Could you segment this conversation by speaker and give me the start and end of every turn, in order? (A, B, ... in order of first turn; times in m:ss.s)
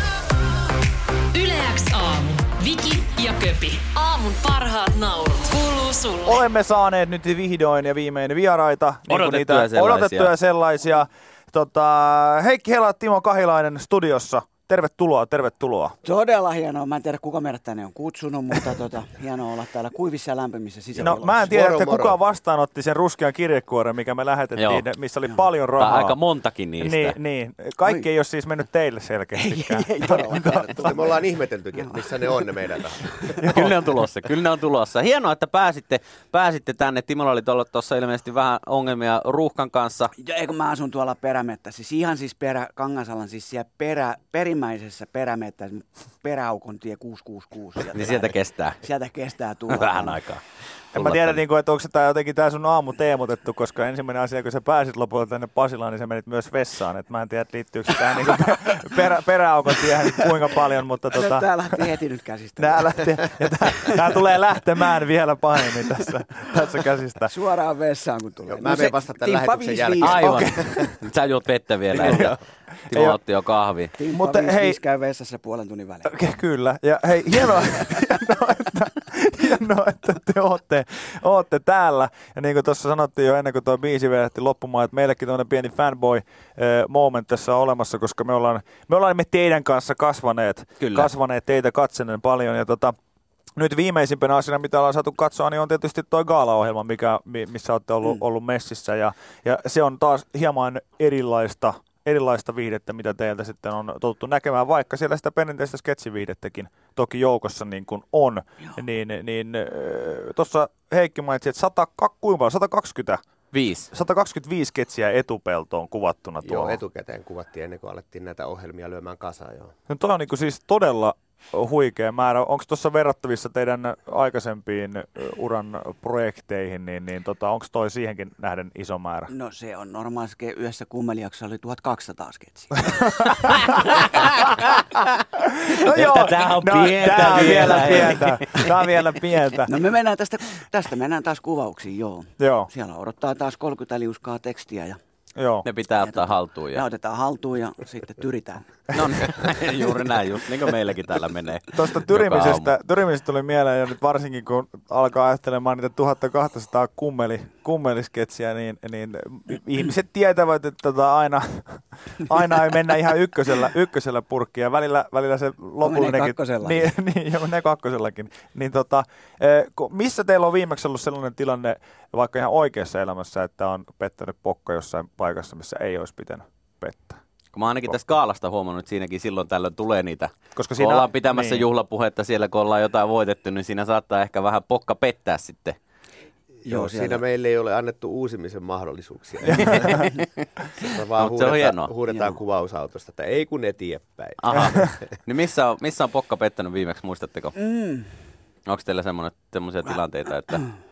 0:01.3-0:06.4 A
0:06.2-0:16.0 B
0:09.1-0:10.3 C
0:16.0-0:21.5 D
0:21.0-0:22.2 E
0:21.0-0:26.2 B
0:24.6-0:24.9 C
0:25.2-0:25.5 D
0:25.8-0:27.2 C
0:26.8-0:31.0 B
0:29.4-0:31.2 D
0:30.8-0:33.0 E
0:31.7-0:32.5 D
0:33.0-0:33.4 D
0:33.4-0:33.9 B
0:33.5-0:40.1 C
0:40.2-0:50.2 D
0:47.9-0:48.8 C
0:49.7-0:50.4 C
0:50.9-0:51.4 C
0:50.9-1:01.8 B
1:01.1-1:03.2 D
1:02.6-1:07.3 B
1:07.3-1:10.6 D
1:08.5-1:10.9 E
1:10.0-1:12.4 C
1:10.3-1:11.0 B
1:11.9-1:12.4 B
1:12.9-1:13.9 C
1:12.9-1:13.2 B
1:14.0-1:16.1 D
1:14.1-1:14.8 B
1:16.1-1:32.9 B
1:30.8-1:31.1 C
1:33.6-1:53.2 B
1:53.5-1:53.9 C
1:53.9-1:56.8 B
1:56.4-1:59.7 E
1:59.9-2:09.3 B
2:09.3-2:14.1 D
2:13.1-2:14.3 B
2:15.4-2:19.8 B
2:15.7-2:18.8 C
2:19.7-2:25.0 D
2:22.4-2:22.7 B
2:25.4-2:25.7 B
2:25.6-2:26.8 C
2:26.0-2:28.7 D
2:28.9-2:32.7 C
2:31.7-2:57.2 B
2:45.8-2:46.9 D
2:57.5-3:05.8 C
3:00.6-3:01.7 B
3:06.6-3:07.2 D
3:06.6-3:09.9 E
3:09.4-3:10.2 B
3:09.6-3:10.3 C
3:10.8-3:11.9 C
3:10.8-3:15.0 E
3:12.1-3:12.4 D
3:14.4-3:17.6 C
3:17.6-3:18.2 D
3:18.7-3:20.6 C